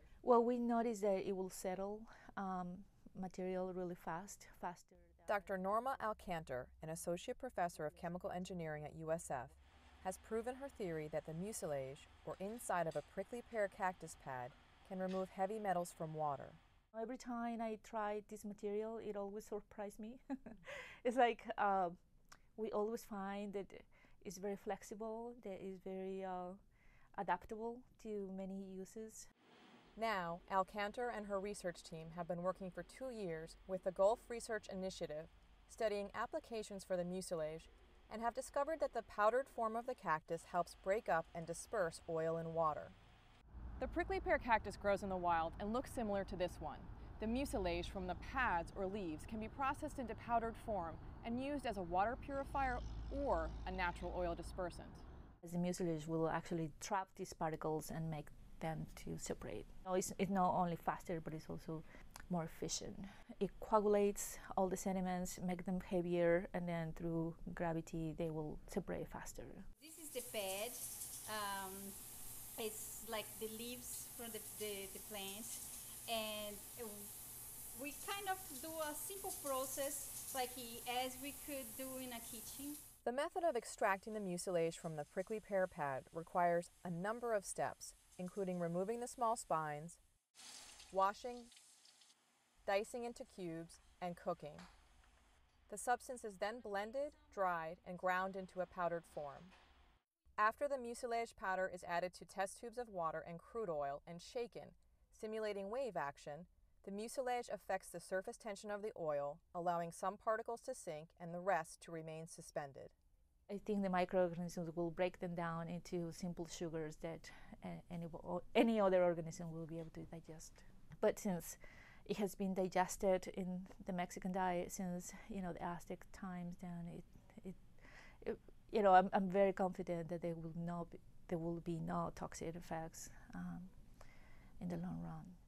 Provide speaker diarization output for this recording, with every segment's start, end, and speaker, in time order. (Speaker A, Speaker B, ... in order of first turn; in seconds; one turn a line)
Speaker A: 0.2-5.3
Speaker B: 5.3-16.6
Speaker A: 16.9-22.0
Speaker A: 22.6-26.6
Speaker A: 27.1-29.3
Speaker B: 29.9-43.0
Speaker B: 43.8-55.0
Speaker A: 55.4-69.7
Speaker C: 69.8-72.0
Speaker C: 72.5-77.1
Speaker C: 77.7-82.8
Speaker B: 83.0-90.0
Speaker B: 90.9-91.5
Speaker B: 92.6-94.7
Speaker B: 95.7-99.5
Speaker B: 100.4-112.9
Speaker A: 113.5-133.7
Speaker A: 134.6-135.4